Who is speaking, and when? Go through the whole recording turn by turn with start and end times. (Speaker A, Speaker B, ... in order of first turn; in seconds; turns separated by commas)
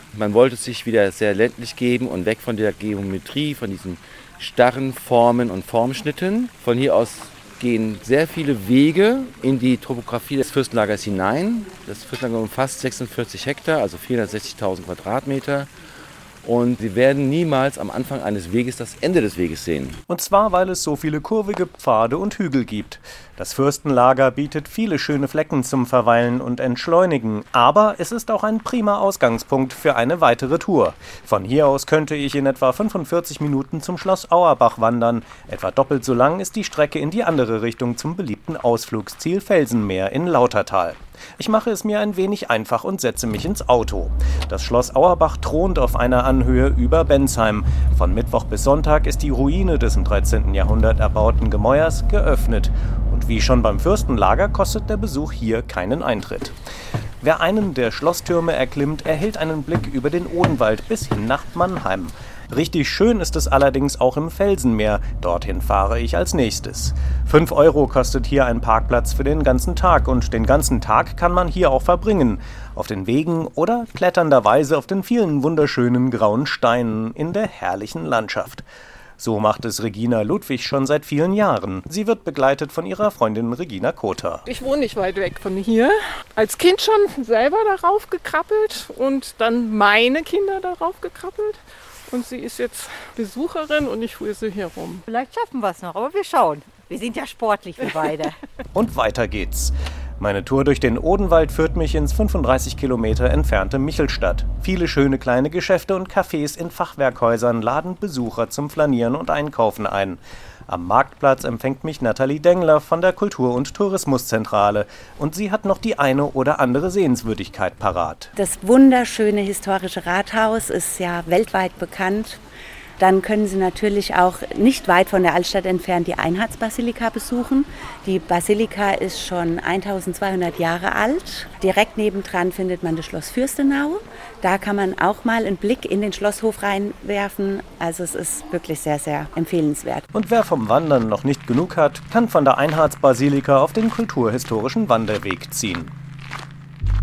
Speaker A: 0.1-15.7, Speaker A: 16.4-20.0, Speaker B: 20.1-56.5, Speaker B: 57.2-78.6, Speaker B: 79.2-84.4, Speaker C: 84.5-95.0, Speaker D: 95.1-98.3, Speaker B: 98.8-118.3, Speaker E: 118.4-122.4, Speaker E: 123.0-140.1, Speaker B: 140.1-145.9